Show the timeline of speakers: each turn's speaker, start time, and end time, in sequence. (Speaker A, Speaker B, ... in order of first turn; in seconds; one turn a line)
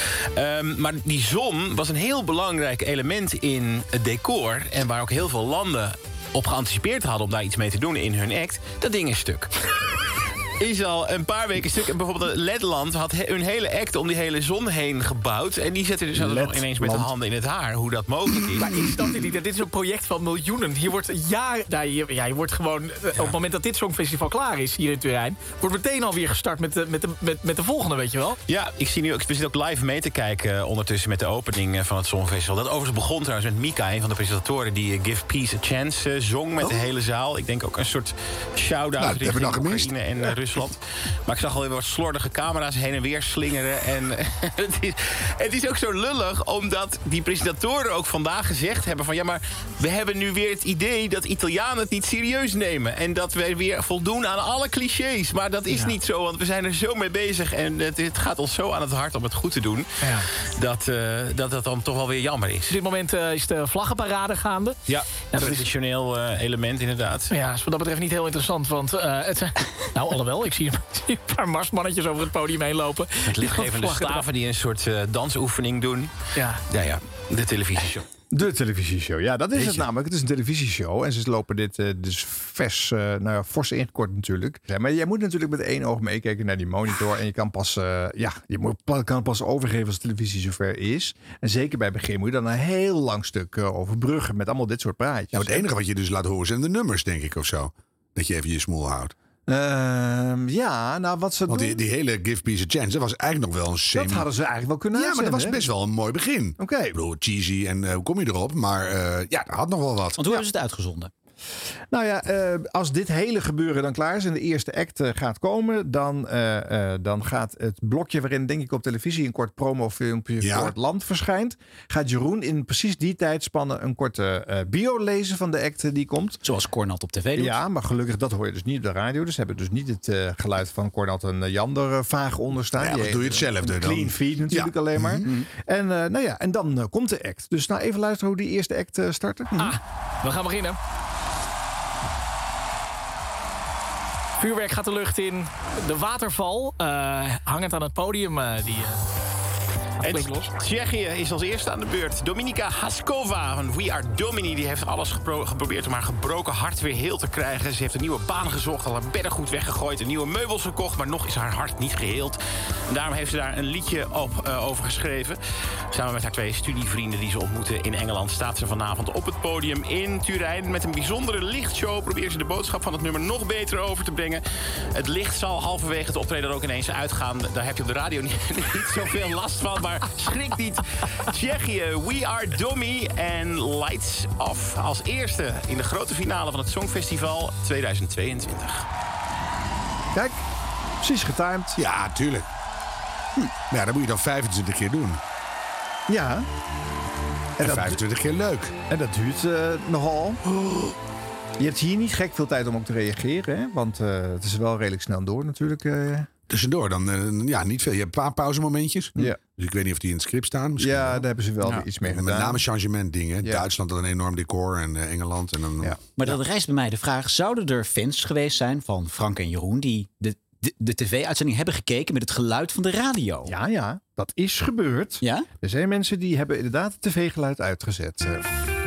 Speaker A: 0.3-9.5
Speaker A: 10.6-18.8
Speaker B: 16.1-17.1
Speaker C: 18.5-28.4
Speaker A: 28.5-59.9
Speaker D: 39.0-40.3
Speaker A: 60.5-62.7
Speaker C: 62.7-64.8
Speaker A: 64.9-67.3
Speaker C: 65.3-65.7
Speaker C: 67.3-74.2
Speaker A: 73.2-76.1
Speaker C: 76.3-76.6
Speaker A: 76.7-78.0
Speaker B: 78.3-95.7
Speaker D: 95.3-99.1
Speaker B: 99.5-101.8
Speaker D: 101.5-104.3
Speaker B: 103.9-105.7
Speaker D: 104.9-110.2
Speaker B: 106.6-106.9
Speaker E: 110.2-111.1
Speaker B: 111.9-126.4
Speaker D: 120.4-120.7
Speaker E: 126.4-127.6
Speaker B: 127.3-139.5
Speaker D: 132.8-135.3
Speaker C: 139.6-140.8
Speaker C: 144.4-149.0
Speaker A: 150.0-165.4
Speaker C: 150.0-150.5
Speaker A: 165.9-174.4
Speaker A: 174.9-188.8
Speaker B: 190.1-190.4
Speaker B: 191.0-191.8
Speaker D: 191.8-192.5
Speaker D: 193.7-195.2
Speaker B: 196.1-196.5
Speaker B: 197.6-198.0
Speaker D: 197.6-198.7
Speaker B: 198.9-200.4
Speaker D: 200.5-200.9
Speaker B: 201.6-206.3
Speaker D: 206.5-211.2
Speaker B: 209.2-209.4
Speaker B: 210.8-212.7
Speaker D: 212.0-216.4
Speaker E: 216.1-223.5
Speaker B: 223.4-228.5
Speaker E: 225.2-225.5